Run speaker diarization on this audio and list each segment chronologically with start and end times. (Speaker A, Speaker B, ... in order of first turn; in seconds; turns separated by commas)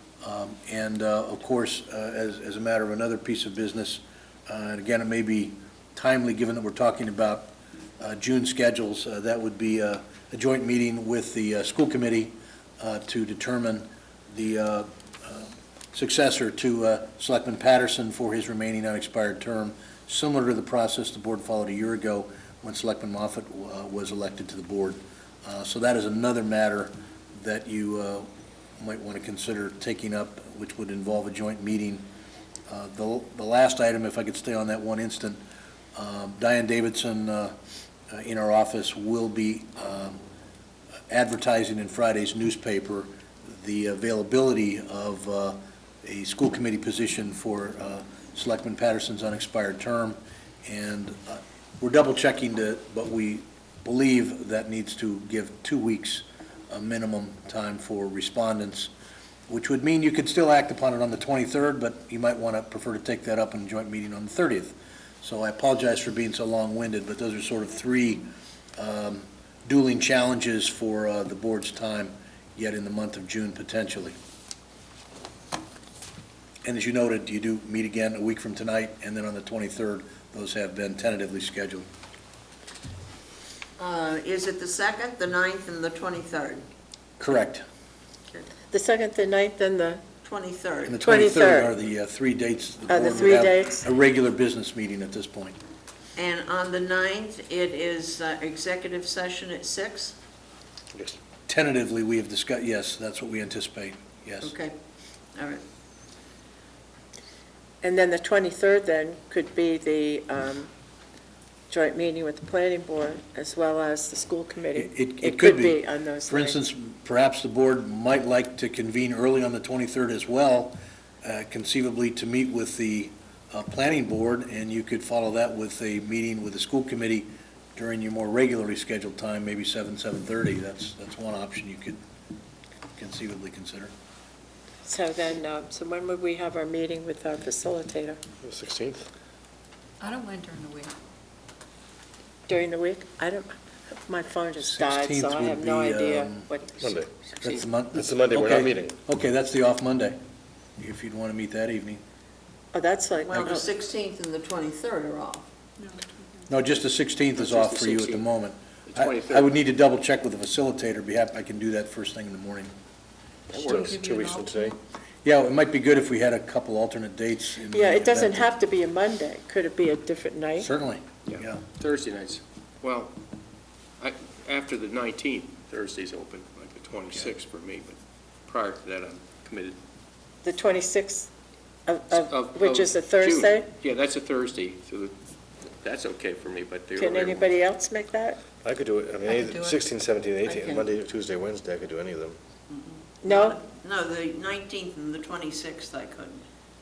Speaker A: 0.2-28.3, Speaker A: 28.8-32.1, Speaker A: 32.7-35.4, Speaker A: 36.0-37.6, Speaker A: 38.1-40.2, Speaker A: 41.1-58.9, Speaker A: 59.5-74.2, Speaker A: 76.6-81.9, Speaker B: 83.8-86.6, Speaker A: 87.2-87.6, Speaker C: 88.7-90.0, Speaker B: 90.2-91.1, Speaker A: 90.9-95.6, Speaker C: 91.0-91.7, Speaker C: 92.9-93.8, Speaker B: 96.2-100.2, Speaker A: 101.5-104.5, Speaker B: 104.4-104.8, Speaker B: 105.3-105.6, Speaker C: 107.8-110.7, Speaker C: 111.7-116.6, Speaker A: 114.8-132.0, Speaker A: 133.0-133.9, Speaker C: 134.8-138.2, Speaker D: 138.4-139.1, Speaker E: 140.0-140.9, Speaker C: 142.5-146.9, Speaker A: 144.6-146.5, Speaker D: 146.8-147.1, Speaker A: 147.4-150.2, Speaker D: 147.9-149.0, Speaker A: 150.8-152.0, Speaker C: 152.7-153.7, Speaker B: 153.2-155.5, Speaker A: 156.5-162.7, Speaker F: 157.4-158.2, Speaker F: 158.9-159.6, Speaker F: 163.5-163.9, Speaker D: 163.6-164.8, Speaker E: 163.6-164.8, Speaker A: 165.2-168.5, Speaker C: 167.7-170.7, Speaker A: 170.6-171.6, Speaker F: 171.3-173.2, Speaker F: 174.0-179.8, Speaker C: 180.4-181.3, Speaker C: 181.9-183.7, Speaker F: 182.1-185.2, Speaker F: 185.7-187.5, Speaker C: 187.0-188.4, Speaker D: 188.6-192.4, Speaker E: 189.2-189.8, Speaker E: 190.5-190.8, Speaker B: 192.7-196.4, Speaker C: 193.2-193.6